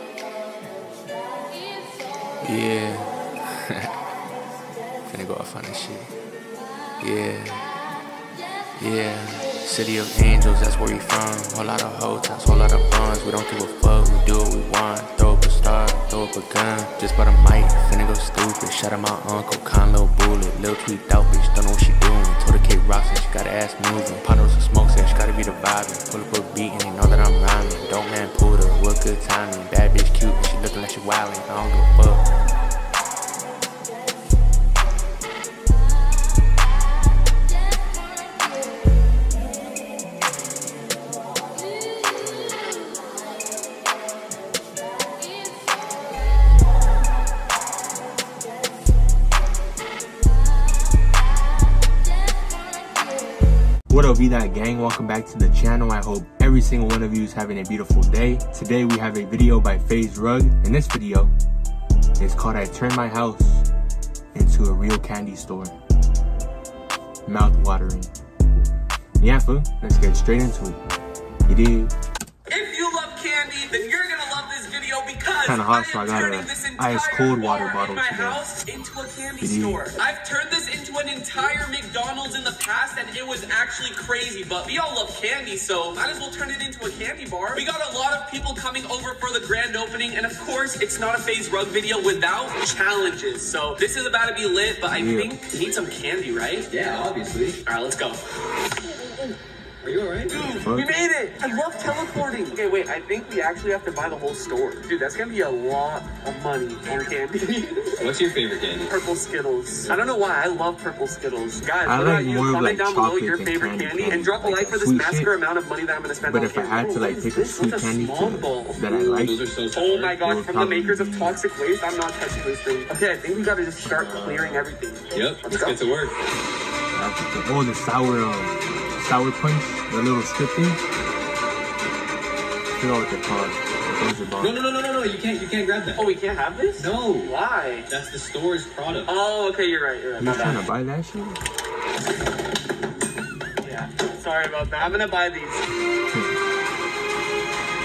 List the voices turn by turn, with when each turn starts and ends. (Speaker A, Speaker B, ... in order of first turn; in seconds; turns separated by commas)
Speaker A: 2.4-3.9, Speaker A: 5.1-6.1, Speaker A: 7.0-7.8, Speaker A: 8.8-32.3, Speaker B: 53.9-61.3, Speaker B: 62.2-63.7, Speaker B: 64.3-65.8, Speaker B: 67.2-68.1, Speaker B: 69.2-70.8, Speaker B: 71.5-71.9, Speaker C: 72.5-96.7, Speaker B: 75.4-78.4, Speaker B: 79.4-79.8, Speaker B: 94.9-95.3, Speaker D: 96.7-97.6, Speaker C: 97.6-98.2, Speaker C: 98.9-99.3, Speaker D: 99.8-100.4, Speaker C: 100.3-108.1, Speaker B: 100.5-100.9, Speaker D: 108.0-108.9, Speaker C: 108.9-118.8, Speaker B: 111.8-115.4, Speaker B: 116.2-119.4, Speaker D: 118.9-120.2, Speaker C: 119.7-125.8, Speaker B: 120.2-121.4, Speaker B: 123.8-124.7, Speaker D: 125.1-126.2, Speaker B: 126.9-130.8, Speaker B: 132.8-134.6, Speaker D: 134.4-136.0, Speaker C: 136.0-137.9, Speaker D: 136.8-137.3, Speaker D: 137.9-139.1, Speaker C: 139.1-140.6, Speaker B: 140.2-141.4, Speaker C: 143.6-145.6